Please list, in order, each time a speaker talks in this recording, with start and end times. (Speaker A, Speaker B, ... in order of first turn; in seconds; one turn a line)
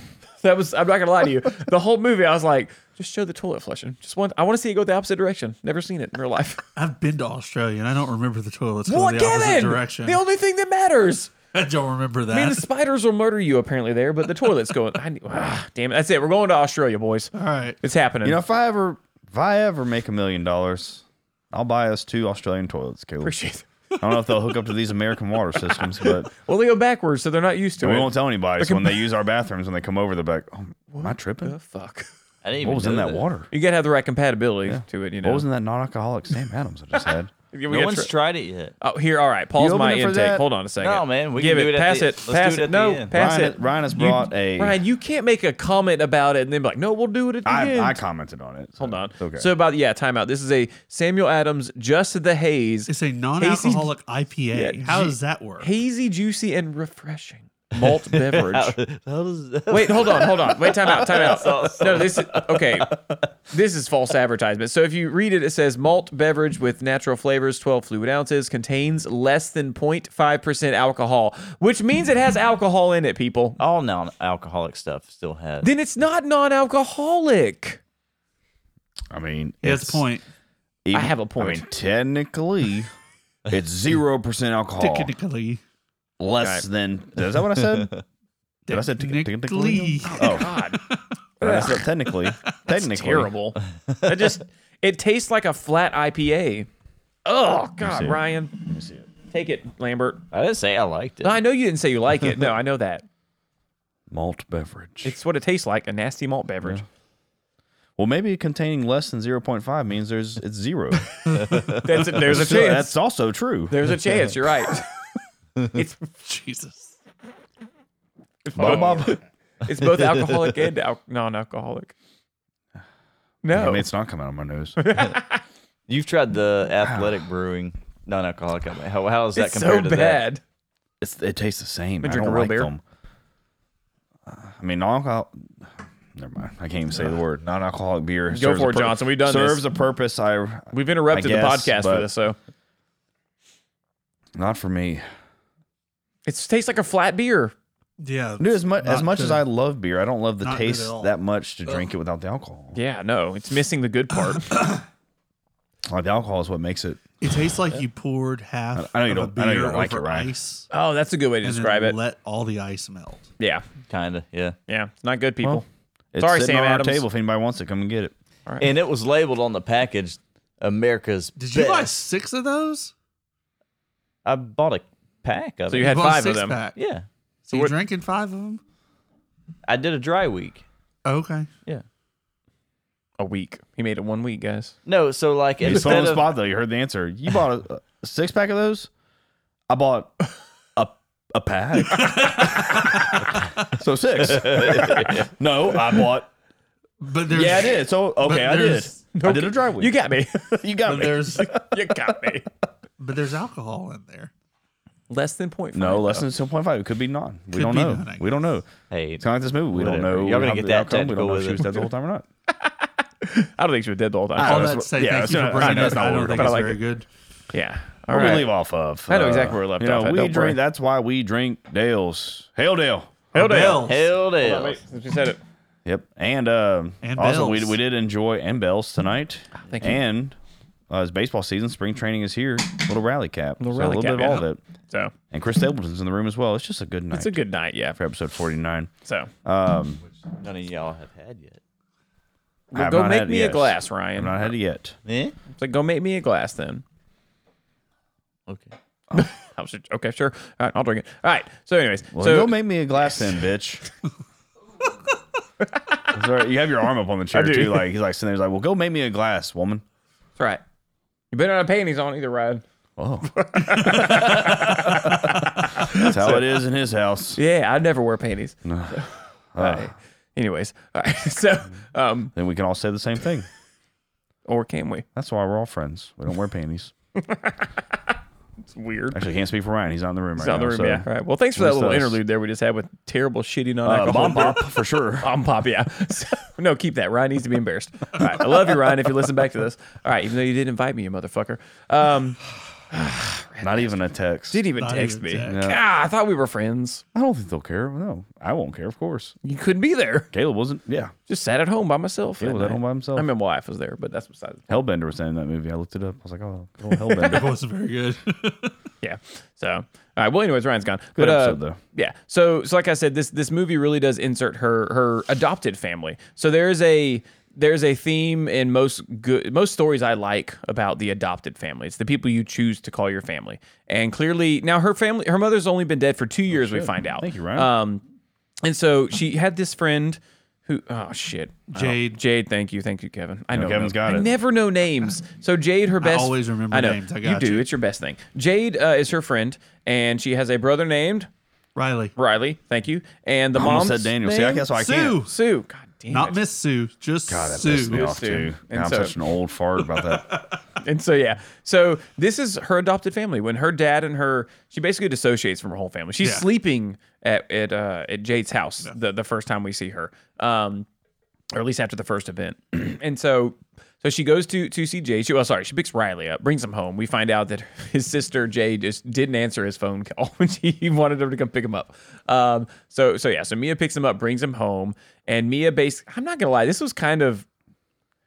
Speaker A: 0.4-6.7
Speaker B: 6.8-10.2
Speaker A: 8.9-11.3
Speaker B: 11.5-12.6
Speaker A: 12.3-18.4
Speaker B: 17.4-17.8
Speaker C: 18.2-23.3
Speaker A: 23.2-23.6
Speaker C: 24.0-26.3
Speaker A: 25.8-29.1
Speaker C: 27.8-31.5
Speaker A: 30.9-32.1
Speaker D: 32.4-33.3
Speaker C: 32.6-33.5
Speaker A: 33.5-35.4
Speaker C: 34.6-37.3
Speaker A: 37.5-38.1
Speaker D: 37.7-38.7
Speaker A: 38.8-48.0
Speaker C: 39.6-40.4
Speaker D: 40.8-43.1
Speaker C: 43.1-44.8
Speaker C: 47.4-49.5
Speaker A: 48.8-53.9
Speaker B: 52.9-55.7
Speaker A: 54.5-58.8
Speaker D: 57.8-62.9
Speaker A: 59.7-73.6
Speaker D: 73.6-75.7
Speaker A: 75.6-77.8
Speaker C: 79.1-80.0
Speaker B: 79.6-80.2
Speaker C: 80.8-82.9
Speaker A: 80.9-81.7
Speaker C: 83.5-85.1
Speaker B: 84.8-85.6
Speaker C: 86.2-87.9
Speaker D: 87.6-88.0
Speaker B: 88.7-91.0
Speaker C: 88.7-90.5
Speaker A: 90.1-90.8
Speaker C: 91.4-93.3
Speaker A: 91.4-91.8
Speaker A: 92.7-96.7
Speaker A: 97.2-98.7
Speaker C: 97.8-99.0
Speaker A: 99.2-100.2
Speaker D: 100.3-101.4
Speaker A: 101.2-103.0
Speaker C: 104.1-105.1
Speaker A: 105.0-106.8
Speaker C: 108.0-111.1
Speaker B: 111.2-111.9
Speaker D: 111.5-111.8
Speaker A: 111.8-113.0
Speaker C: 112.2-113.9
Speaker A: 113.7-114.9
Speaker A: 115.7-116.1
Speaker B: 116.2-116.9
Speaker A: 118.4-121.9
Speaker C: 118.5-119.2
Speaker D: 119.8-120.5
Speaker A: 123.4-123.9
Speaker C: 123.5-124.8
Speaker A: 124.8-125.4
Speaker D: 125.9-130.2
Speaker A: 129.3-130.4
Speaker C: 131.0-132.8
Speaker A: 132.0-132.7
Speaker C: 134.3-135.4
Speaker C: 136.2-142.1
Speaker A: 138.3-139.6
Speaker A: 140.7-142.3
Speaker C: 144.4-145.0
Speaker A: 146.2-147.5
Speaker B: 148.0-149.4
Speaker C: 148.4-152.8
Speaker B: 150.4-151.1
Speaker A: 152.7-154.6
Speaker C: 155.9-157.1
Speaker B: 157.2-160.7
Speaker C: 158.7-160.3
Speaker A: 160.7-162.0
Speaker B: 161.4-163.3
Speaker A: 163.4-163.6
Speaker D: 163.9-164.6
Speaker A: 164.7-165.6
Speaker C: 166.1-168.1
Speaker A: 166.2-167.0
Speaker D: 168.6-171.9
Speaker B: 171.4-172.9
Speaker D: 174.2-176.0
Speaker A: 175.7-176.6
Speaker B: 175.8-176.8
Speaker D: 176.8-177.0
Speaker B: 177.5-178.6
Speaker D: 179.7-180.6
Speaker B: 181.0-181.5
Speaker A: 183.2-184.7
Speaker D: 184.8-186.3
Speaker C: 185.6-188.9
Speaker C: 189.7-190.2
Speaker C: 190.8-196.3
Speaker B: 191.9-193.2
Speaker D: 194.2-195.3
Speaker B: 197.0-199.0
Speaker A: 197.3-197.8
Speaker C: 197.4-199.9
Speaker A: 199.1-202.5
Speaker C: 200.6-201.8
Speaker B: 200.8-201.6
Speaker B: 203.0-204.3
Speaker A: 205.1-206.3
Speaker C: 205.7-208.7
Speaker B: 207.5-208.3
Speaker D: 208.9-211.8
Speaker C: 209.2-212.2
Speaker A: 213.2-216.8
Speaker C: 214.4-216.6
Speaker B: 214.4-217.1
Speaker A: 217.5-218.5
Speaker C: 218.1-223.1
Speaker A: 219.1-220.6
Speaker B: 223.3-224.1
Speaker A: 223.3-225.4
Speaker D: 223.8-224.8
Speaker C: 225.8-230.3
Speaker B: 227.0-227.8
Speaker A: 229.6-230.0
Speaker C: 230.9-234.6
Speaker A: 233.6-235.1
Speaker C: 235.3-237.3
Speaker A: 237.1-238.0
Speaker C: 237.9-238.9
Speaker A: 239.0-239.3
Speaker C: 239.4-240.0
Speaker D: 240.3-241.6
Speaker A: 242.7-244.5
Speaker C: 242.7-245.0
Speaker D: 245.0-245.3
Speaker A: 245.5-246.8
Speaker D: 248.5-248.7
Speaker A: 249.2-252.6
Speaker C: 252.1-253.8
Speaker C: 256.1-259.8
Speaker A: 257.3-257.9
Speaker A: 261.3-262.6
Speaker C: 263.0-267.4
Speaker A: 263.3-266.6
Speaker A: 267.4-272.3
Speaker C: 268.6-269.0
Speaker C: 269.5-269.9
Speaker C: 272.3-273.5
Speaker A: 274.5-275.1
Speaker C: 275.1-276.9
Speaker A: 277.2-277.7
Speaker A: 278.7-279.2
Speaker C: 279.1-282.2
Speaker A: 280.4-293.9
Speaker C: 283.8-285.3
Speaker C: 293.6-294.6
Speaker A: 294.5-297.0
Speaker B: 294.8-295.6
Speaker C: 295.5-295.8
Speaker C: 297.1-299.3
Speaker A: 299.4-300.3
Speaker C: 300.3-301.1
Speaker A: 301.3-304.7
Speaker C: 302.4-303.3
Speaker C: 304.7-307.5
Speaker B: 307.2-308.7
Speaker A: 309.0-328.0
Speaker C: 311.2-311.8
Speaker C: 326.5-327.7
Speaker A: 328.6-341.3
Speaker B: 331.7-332.2
Speaker C: 333.5-334.3
Speaker B: 336.0-337.7
Speaker B: 341.7-342.1
Speaker A: 342.2-344.6
Speaker C: 343.5-345.2
Speaker B: 344.6-345.3
Speaker A: 345.2-346.4
Speaker B: 346.1-348.2
Speaker C: 347.3-350.4
Speaker A: 347.7-349.1
Speaker B: 349.9-350.6
Speaker A: 350.8-360.9
Speaker B: 356.2-356.5
Speaker A: 361.5-377.4